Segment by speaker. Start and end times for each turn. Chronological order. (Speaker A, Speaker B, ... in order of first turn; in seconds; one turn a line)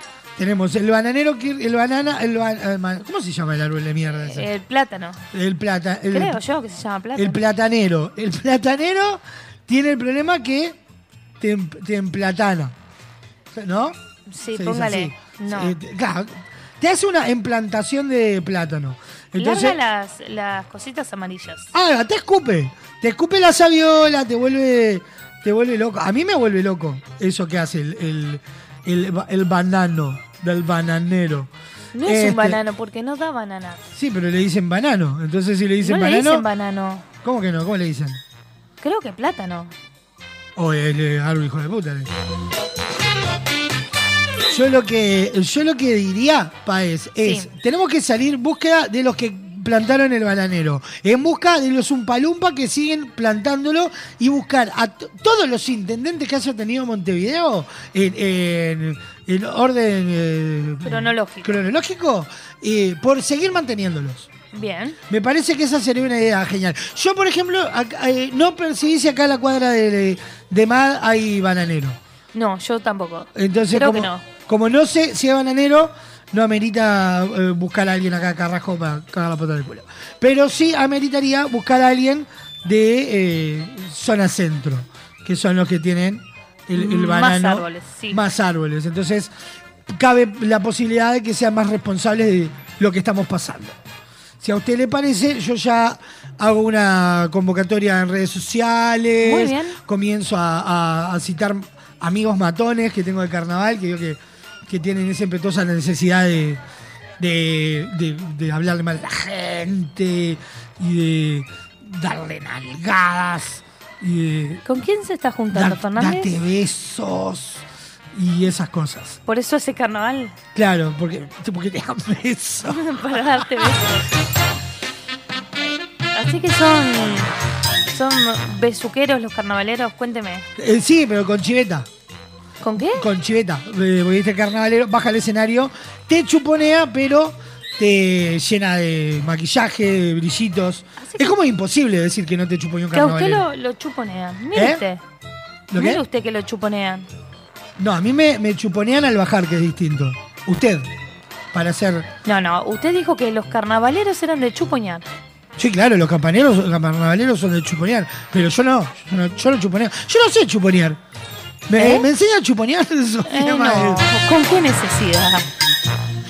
Speaker A: 0.4-4.5
Speaker B: 4.3-5.2
Speaker A: 5.3-6.4
Speaker B: 6.1-7.4
Speaker A: 7.2-10.8
Speaker A: 11.4-12.7
Speaker A: 13.5-19.8
Speaker B: 14.3-15.8
Speaker B: 19.4-21.7
Speaker A: 21.7-31.5
Speaker B: 31.9-33.9
Speaker A: 32.0-32.6
Speaker A: 33.9-36.5
Speaker B: 35.8-37.0
Speaker A: 37.2-38.2
Speaker B: 38.8-39.7
Speaker A: 40.5-42.1
Speaker A: 44.5-64.3
Speaker B: 47.2-47.5
Speaker B: 60.8-61.5
Speaker B: 64.5-65.0
Speaker A: 65.1-72.0
Speaker B: 72.3-74.2
Speaker A: 73.3-89.3
Speaker B: 86.7-88.2
Speaker A: 89.9-93.8
Speaker A: 94.4-106.6
Speaker B: 99.2-99.8
Speaker A: 107.2-114.6
Speaker B: 114.6-116.3
Speaker A: 115.5-119.2
Speaker B: 119.2-120.3
Speaker A: 120.5-123.8
Speaker B: 122.6-124.1
Speaker B: 126.1-127.3
Speaker B: 127.9-130.5
Speaker A: 130.6-131.9
Speaker B: 132.6-133.1
Speaker A: 132.9-143.4
Speaker B: 141.0-141.3
Speaker B: 142.9-145.0
Speaker A: 144.5-144.8
Speaker A: 145.7-146.0
Speaker B: 145.8-147.1
Speaker A: 147.8-150.9
Speaker A: 151.5-152.1
Speaker B: 152.2-155.1
Speaker A: 155.6-161.0
Speaker A: 161.7-164.1
Speaker B: 161.8-162.1
Speaker B: 163.2-165.5